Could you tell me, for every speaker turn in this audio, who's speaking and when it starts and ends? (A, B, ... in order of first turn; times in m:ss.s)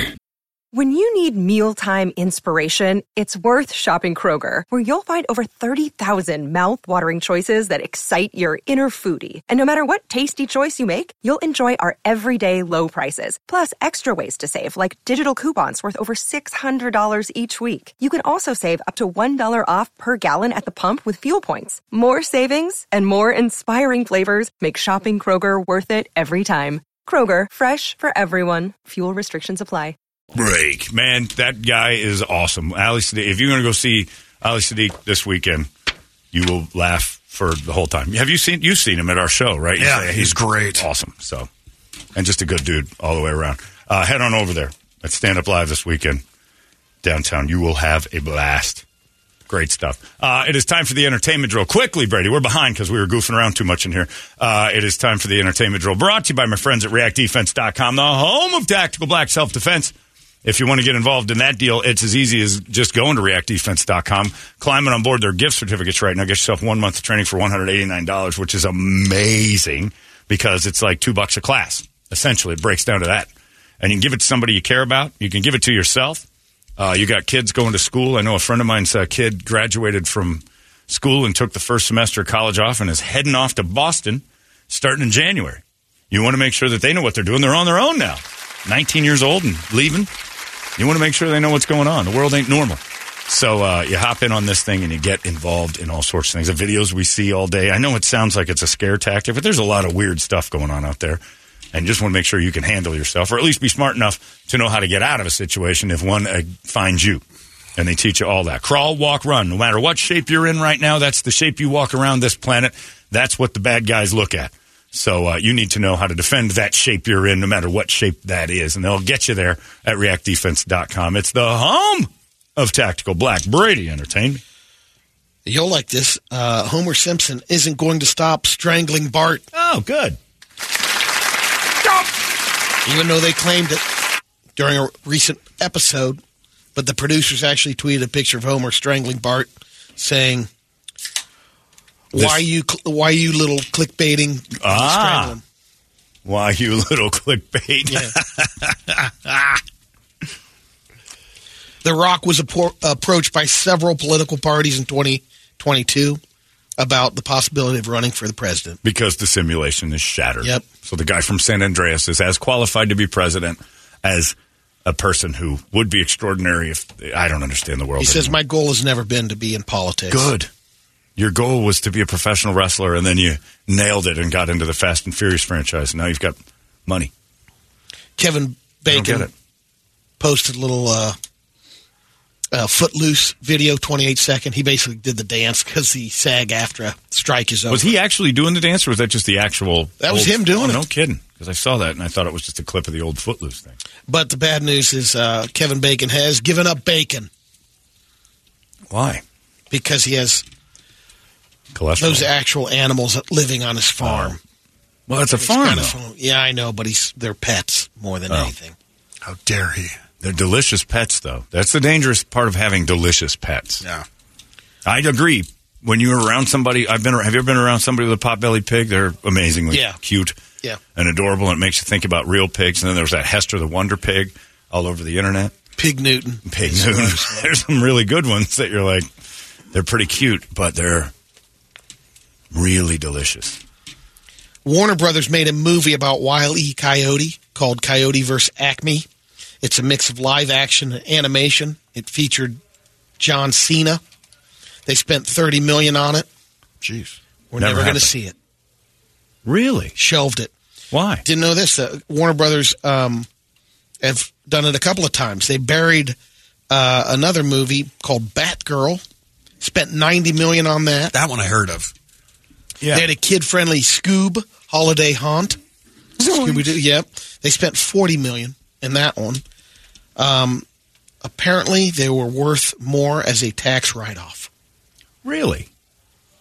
0:00.7-0:30.0 A
0:30.4-0:30.8 B
0:30.5-0:35.7 C
0:36.3-0:41.5 C
0:39.8-0:40.9 B
0:42.2-0:46.2 C
0:47.0-0:48.8 C
0:49.5-0:59.9 C
1:00.4-1:16.3 C
1:16.8-1:30.1 C
1:30.8-1:41.2 C
1:41.7-1:47.2 C
1:47.8-2:04.4 C
2:05.4-2:09.4 D
2:09.5-2:10.2 C
2:12.8-2:13.8 D
2:14.6-2:16.2 D
2:16.7-2:20.5 D
2:22.1-2:25.4 D
2:22.1-2:22.4 C
2:24.6-2:25.4 C
2:26.2-2:28.4 C
2:27.9-2:28.1 D
2:31.8-2:36.2 D
2:36.8-2:38.8 D
2:38.8-2:48.4 C
2:48.0-2:50.3 D
2:50.1-2:50.5 C
2:51.2-2:57.1 C
2:58.2-2:59.3 D
2:58.9-2:59.3 C
3:00.2-3:01.2 D
3:02.5-3:07.9 D
3:07.7-3:13.8 C
3:10.0-3:10.8 D
3:14.1-3:17.3 D
3:18.9-3:19.2 C
3:19.7-3:20.4 D
3:21.7-3:22.3 C
3:22.0-3:24.4 D
3:24.0-3:24.4 C
3:25.1-3:26.0 C
3:25.3-3:28.7 D
3:29.2-3:30.0 B
3:30.2-3:33.8 C
3:33.8-3:34.0 B
3:34.8-3:40.4 C
3:39.7-3:40.0 D
3:40.9-3:45.5 C
3:45.8-3:47.4 D
3:46.4-3:49.1 C
3:49.7-3:51.1 C
3:52.5-3:53.6 C
3:54.6-3:59.1 D
3:59.6-4:02.6 D
4:03.2-4:04.0 D
4:04.8-4:06.3 D
4:06.8-4:07.2 B
4:07.5-4:08.3 D
4:07.6-4:08.1 C
4:09.4-4:09.9 C
4:10.0-4:10.5 D
4:10.9-4:11.2 C
4:11.2-4:13.3 D
4:14.0-4:16.2 D
4:16.7-4:19.0 D
4:19.6-4:21.1 D
4:21.1-4:21.9 B
4:22.8-4:23.1 C
4:22.9-4:25.6 D
4:26.2-4:29.4 D
4:26.3-4:26.6 C
4:30.2-4:30.6 D
4:31.2-4:34.5 D
4:35.2-4:35.7 C